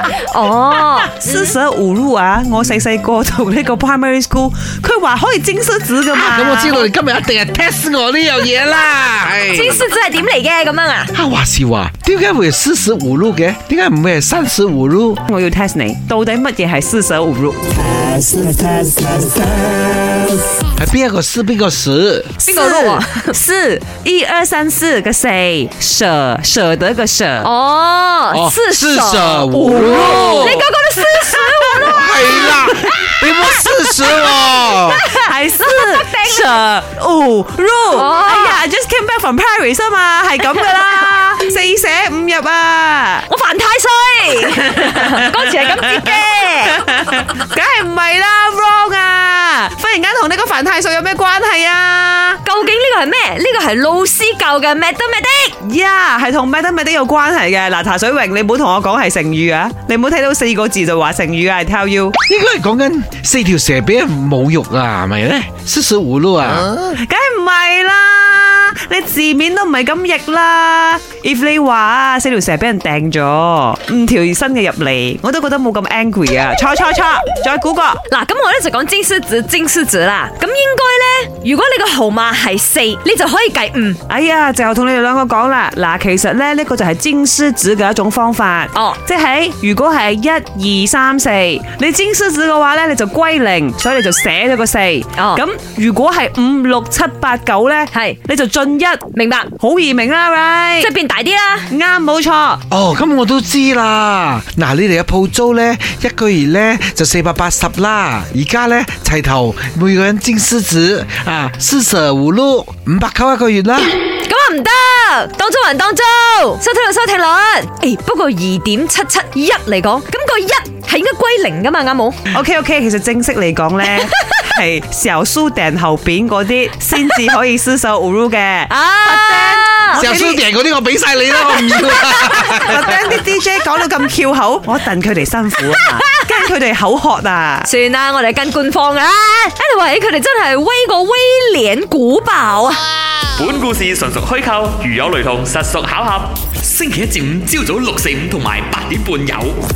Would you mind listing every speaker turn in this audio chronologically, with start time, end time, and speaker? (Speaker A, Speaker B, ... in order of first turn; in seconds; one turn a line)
Speaker A: 0.3-1.5
Speaker B: 1.0-6.9
Speaker C: 6.1-9.8
Speaker A: 9.5-11.1
Speaker C: 11.1-15.2
Speaker B: 15.2-17.9
Speaker C: 17.9-20.2
Speaker C: 20.7-22.3
Speaker B: 22.4-27.5
Speaker A: 22.4-23.4
Speaker A: 27.4-32.6
Speaker C: 28.3-30.6
Speaker B: 29.5-34.1
Speaker C: 31.8-35.0
Speaker A: 33.9-36.6
Speaker B: 34.8-43.3
Speaker A: 37.9-38.6
Speaker A: 43.3-47.0
Speaker B: 44.7-45.8
Speaker B: 46.7-52.4
Speaker A: 52.5-55.6
Speaker B: 55.6-62.2
Speaker C: 62.3-66.7
Speaker B: 66.9-78.0
Speaker A: 78.1-84.0
Speaker B: 84.1-99.0
Speaker A: 88.7-89.0
Speaker A: 95.2-95.4
Speaker A: 97.9-98.2
Speaker A: 99.1-99.5
Speaker B: 99.6-100.9
Speaker A: 100.8-101.7
Speaker B: 101.7-102.6
Speaker C: 102.7-114.0
Speaker A: 114.2-122.2
Speaker B: 122.3-130.4
Speaker A: 128.7-130.1
Speaker C: 129.9-133.0
Speaker A: 131.5-132.9
Speaker B: 132.1-137.7
Speaker A: 135.6-136.5
Speaker A: 137.7-142.8
Speaker D: 143.4-149.6